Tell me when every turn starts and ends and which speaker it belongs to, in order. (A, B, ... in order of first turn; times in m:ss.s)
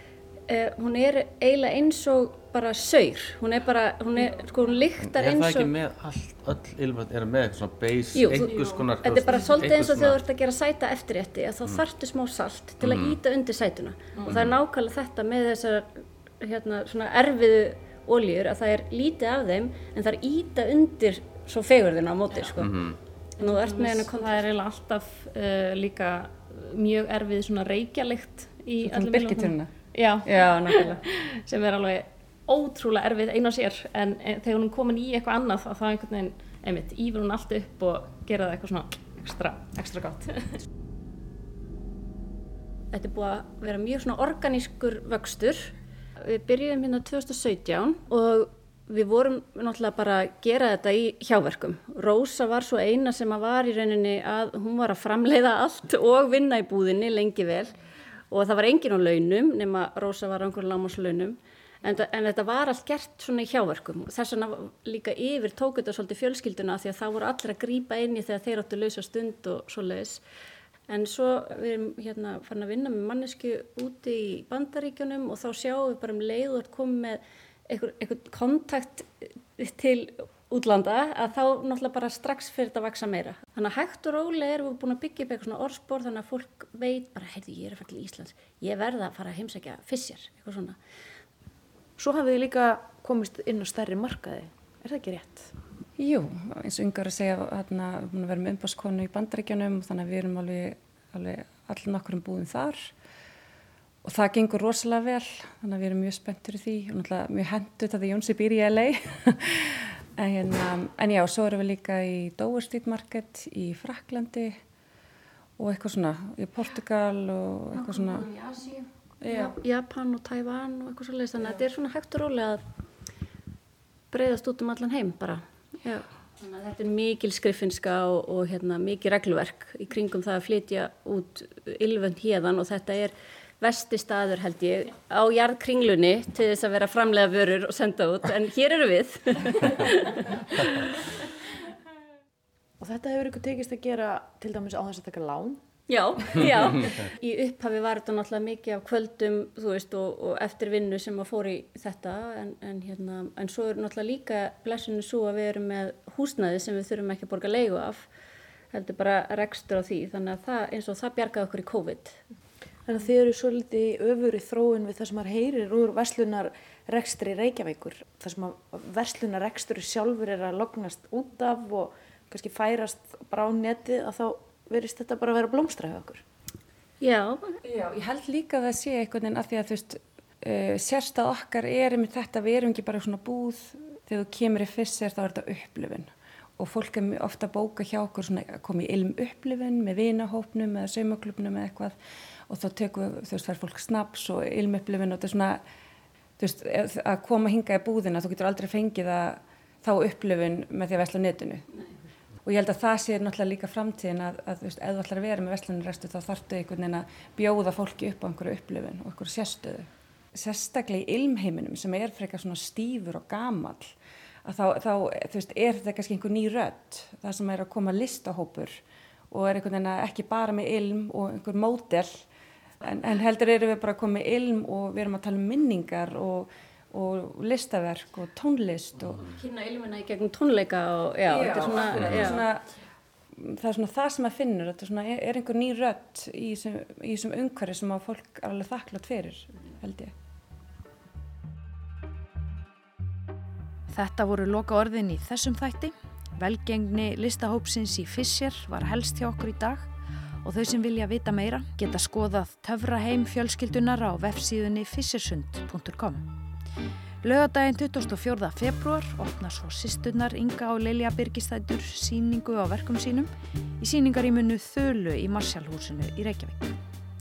0:00.5-0:05.7 A
0:05.0-0:10.2 B
0:08.2-0:08.5 A
0:08.5-0:08.8 C
0:09.0-0:22.7 A
0:12.8-0:13.2 B
0:14.3-0:14.6 B
0:22.6-0:23.0 B
0:23.4-0:40.6 C
0:23.4-0:24.5 A
0:28.8-0:29.7 D
0:30.2-0:31.0 A
0:42.9-0:57.7 A
0:58.3-1:10.2 A
1:10.9-1:30.8 A
1:32.0-1:35.5 E
1:36.0-1:42.9 D
1:44.0-1:54.6 D
1:55.6-1:58.3 D
1:57.8-2:02.6 A
1:59.2-1:59.6 D
2:04.1-2:20.8 A
2:22.8-2:25.6 E
2:25.9-2:38.1 A
2:38.7-2:42.2 A
2:42.9-2:56.2 E
2:57.0-2:57.6 A
2:57.6-3:12.0 D
3:12.5-3:15.6 D
3:16.4-3:21.7 D
3:22.4-3:33.9 D
3:34.4-3:38.8 D
3:39.3-3:42.2 D
3:42.8-3:49.3 D
3:49.3-3:52.4 A
3:51.3-3:52.6 D
3:53.3-4:00.1 D
4:03.9-4:09.9 F
4:10.4-4:16.2 F
4:17.2-4:26.8 F